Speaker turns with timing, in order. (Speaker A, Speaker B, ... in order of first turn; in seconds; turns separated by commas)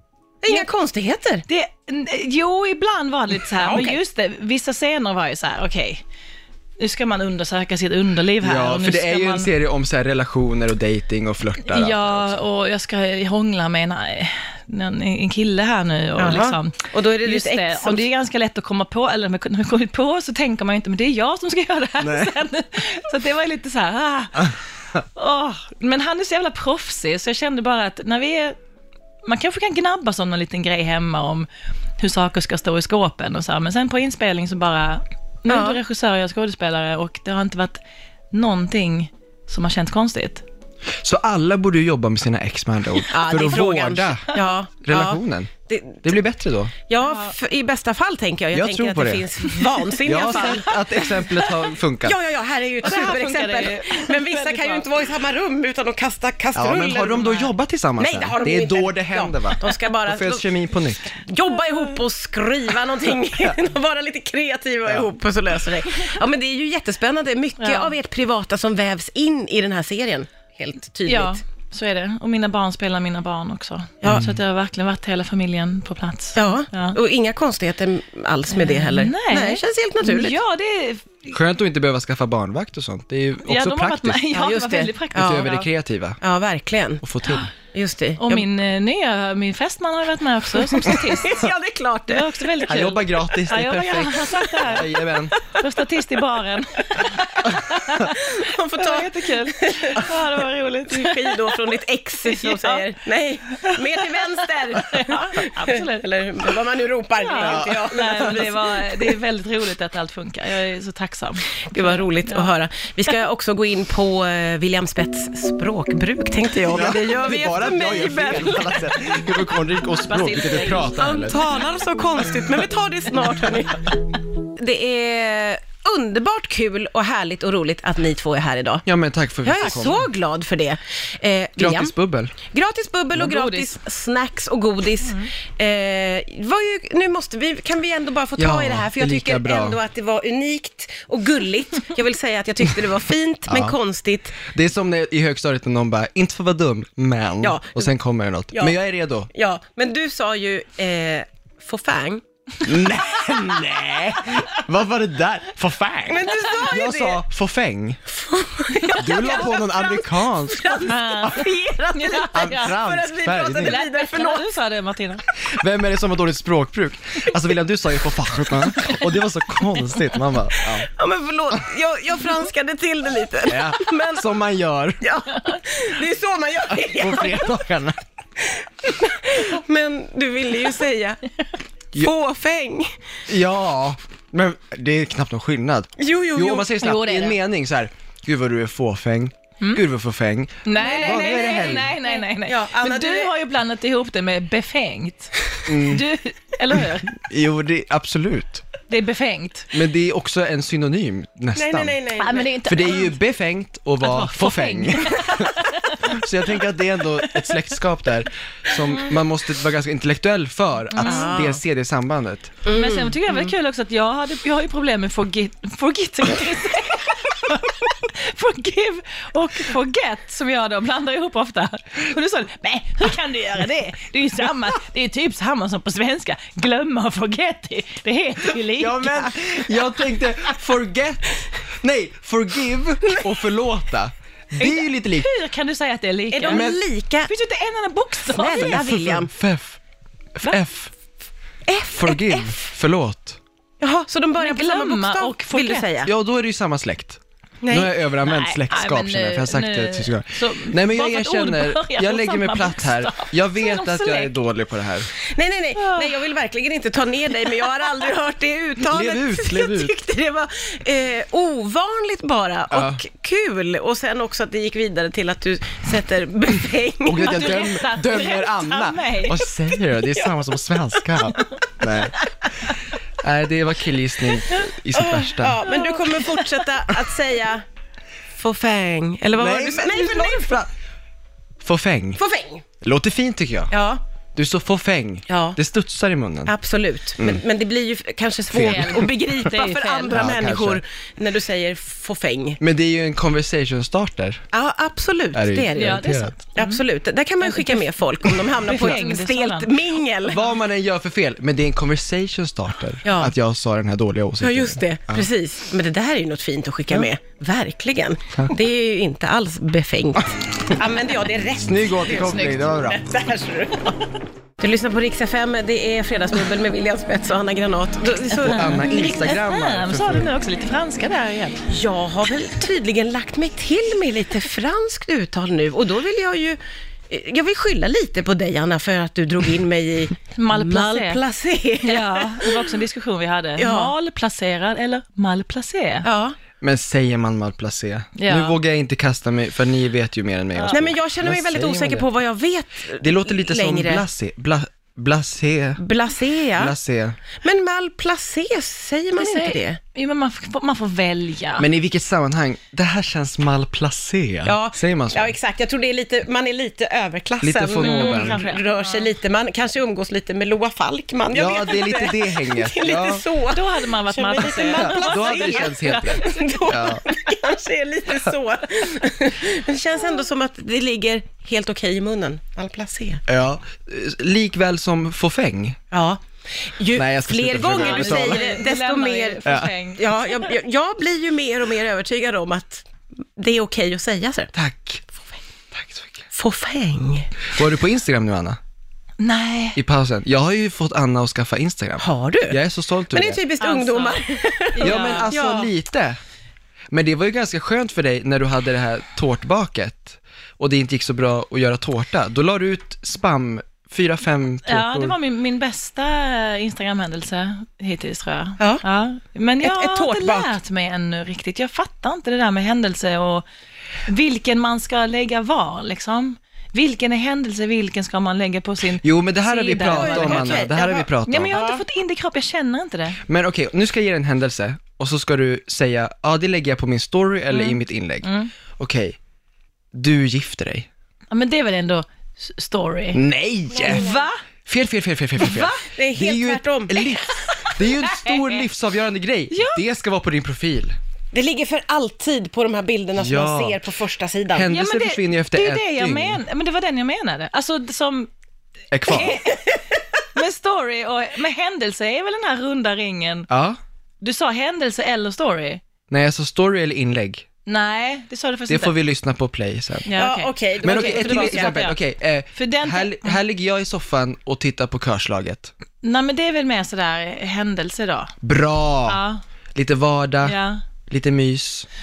Speaker A: 0.4-1.4, Speaker B: 1.5-6.0, Speaker A: 3.6-4.0, Speaker B: 6.8-9.5, Speaker C: 8.4-12.4, Speaker B: 11.7-24.6, Speaker A: 16.2-18.1, Speaker C: 22.0-22.3, Speaker B: 25.1-28.6, Speaker B: 29.2-31.5, Speaker B: 32.0-37.8, Speaker A: 35.5-35.8, Speaker B: 38.3-40.4, Speaker C: 41.0-45.5, Speaker A: 43.1-46.0, Speaker C: 46.0-46.7, Speaker A: 46.9-51.0, Speaker B: 47.0-47.3, Speaker C: 48.5-49.2, Speaker C: 50.0-52.2, Speaker B: 50.3-50.9, Speaker A: 52.0-57.4, Speaker B: 52.8-54.9, Speaker C: 56.5-61.1, Speaker A: 58.0-60.5, Speaker A: 61.2-71.4, Speaker B: 67.6-67.9, Speaker B: 71.0-77.0, Speaker C: 74.0-74.3, Speaker A: 76.3-80.4, Speaker B: 78.5-81.3, Speaker C: 81.3-84.2, Speaker B: 83.4-85.7, Speaker A: 84.3-85.5, Speaker C: 85.1-86.2, Speaker A: 86.2-87.0, Speaker C: 87.0-87.5, Speaker A: 87.7-88.4, Speaker B: 88.2-91.4, Speaker A: 90.6-92.5, Speaker B: 92.1-101.6, Speaker C: 92.6-95.3, Speaker A: 97.9-100.1, Speaker A: 100.9-109.1, Speaker B: 102.2-102.8, Speaker B: 104.7-106.1, Speaker B: 107.2-112.5, Speaker C: 107.4-107.8, Speaker A: 111.7-118.9, Speaker C: 116.7-121.4, Speaker B: 120.0-121.0, Speaker A: 120.8-124.0, Speaker A: 124.5-128.8, Speaker C: 128.8-130.1, Speaker A: 129.4-144.4, Speaker C: 131.6-132.3, Speaker B: 133.2-133.7, Speaker C: 138.4-139.8, Speaker C: 143.5-143.7, Speaker C: 144.4-149.3, Speaker A: 147.4-147.9, Speaker A: 148.5-148.8, Speaker A: 149.3-152.2, Speaker C: 152.6-158.0, Speaker A: 156.1-157.2, Speaker A: 158.1-164.4, Speaker C: 158.9-160.9, Speaker B: 159.1-159.4, Speaker B: 160.8-162.7, Speaker C: 162.3-163.8, Speaker B: 163.6-165.2, Speaker C: 165.4-170.9, Speaker A: 170.6-174.3, Speaker C: 173.5-175.0, Speaker A: 175.0-177.5, Speaker C: 176.8-178.0, Speaker A: 178.4-181.2, Speaker A: 181.9-182.9, Speaker C: 183.3-191.9, Speaker A: 186.0-186.8, Speaker B: 186.8-187.4, Speaker B: 190.6-197.1, Speaker A: 190.8-193.3, Speaker C: 195.7-196.1, Speaker C: 197.1-198.6, Speaker B: 198.9-199.7, Speaker C: 199.7-201.9, Speaker A: 201.5-202.5, Speaker B: 202.2-203.1, Speaker C: 202.6-212.6, Speaker B: 204.0-206.2, Speaker B: 210.9-211.4, Speaker A: 211.0-211.6, Speaker A: 212.7-213.5, Speaker B: 212.7-229.6, Speaker C: 228.7-235.3, Speaker B: 234.6-238.8, Speaker A: 236.3-237.3, Speaker C: 236.5-236.8, Speaker A: 238.3-239.3, Speaker C: 238.6-239.8, Speaker C: 240.4-240.9, Speaker A: 241.7-242.6, Speaker C: 241.9-243.4, Speaker A: 243.8-246.1, Speaker B: 244.4-245.8, Speaker C: 246.0-255.1, Speaker A: 247.6-247.9, Speaker B: 248.2-254.3, Speaker A: 255.2-267.7, Speaker B: 255.8-256.1, Speaker C: 258.9-259.9, Speaker C: 262.7-263.0, Speaker C: 267.0-272.2, Speaker B: 267.2-269.4, Speaker C: 273.2-275.6, Speaker A: 274.9-277.6, Speaker B: 275.6-276.4, Speaker A: 278.4-280.6, Speaker C: 279.3-280.7, Speaker C: 281.6-282.2, Speaker A: 282.2-282.6, Speaker C: 282.8-283.7, Speaker A: 283.7-284.0, Speaker C: 284.3-286.5, Speaker A: 285.3-285.6, Speaker A: 286.4-292.6, Speaker C: 288.5-289.1, Speaker B: 288.6-290.3, Speaker C: 290.1-290.8, Speaker C: 292.6-294.4, Speaker A: 294.5-300.4, Speaker C: 295.3-296.3, Speaker B: 295.7-296.8, Speaker B: 297.4-297.9, Speaker B: 298.4-299.8, Speaker C: 300.2-305.3, Speaker A: 303.0-303.3, Speaker A: 304.4-314.1, Speaker C: 311.6-313.0, Speaker A: 314.6-319.0, Speaker C: 318.4-320.3, Speaker B: 318.5-321.6, Speaker A: 321.7-326.6, Speaker A: 327.1-332.6, Speaker B: 330.3-331.2, Speaker B: 331.8-336.1, Speaker A: 333.6-333.9, Speaker A: 336.0-336.4, Speaker C: 336.6-342.0, Speaker B: 338.1-338.6, Speaker B: 340.5-340.8, Speaker A: 340.7-344.0, Speaker C: 343.0-345.8, Speaker A: 345.8-346.7, Speaker C: 346.6-347.2, Speaker A: 347.4-349.8, Speaker B: 349.1-351.6, Speaker C: 351.6-355.4, Speaker A: 354.4-373.2, Speaker C: 357.4-358.4, Speaker B: 357.8-359.1, Speaker C: 361.3-363.2, Speaker B: 363.5-367.1, Speaker C: 364.7-367.0, Speaker C: 373.3-375.8, Speaker A: 375.9-384.5, Speaker C: 376.9-378.5, Speaker B: 377.7-380.5, Speaker C: 379.4-379.7, Speaker C: 384.5-385.1, Speaker C: 385.7-386.2, Speaker A: 386.3-387.3, Speaker C: 387.5-388.6, Speaker B: 389.2-389.8, Speaker C: 389.7-393.4, Speaker A: 392.0-392.6, Speaker A: 393.1-395.7, Speaker B: 393.6-394.2, Speaker B: 394.8-395.3, Speaker C: 394.8-396.2, Speaker C: 396.9-405.1, Speaker B: 404.6-413.4, Speaker A: 409.6-410.5, Speaker B: 414.1-420.7, Speaker C: 419.0-421.7, Speaker A: 419.7-421.8, Speaker B: 421.2-423.2, Speaker C: 423.3-429.2, Speaker B: 427.5-428.5, Speaker C: 429.9-430.9, Speaker B: 431.3-433.2, Speaker C: 433.1-434.1, Speaker A: 433.8-434.2, Speaker B: 433.8-434.4, Speaker C: 434.6-440.9, Speaker B: 435.4-435.9, Speaker A: 435.9-437.1, Speaker B: 437.5-438.6, Speaker B: 439.5-439.8, Speaker A: 441.3-444.7, Speaker C: 443.1-443.8, Speaker C: 444.5-446.4, Speaker B: 444.7-448.3, Speaker C: 448.9-449.4, Speaker B: 449.1-449.7, Speaker B: 450.3-453.5, Speaker C: 453.5-453.8, Speaker B: 454.2-455.8, Speaker C: 456.1-457.4, Speaker B: 457.6-458.9, Speaker C: 458.7-460.1, Speaker B: 460.1-462.0, Speaker A: 460.1-461.9, Speaker C: 460.8-465.7, Speaker B: 462.5-463.4, Speaker B: 466.0-468.3, Speaker C: 468.4-469.2, Speaker B: 469.1-469.4, Speaker C: 469.7-471.9, Speaker B: 470.4-470.8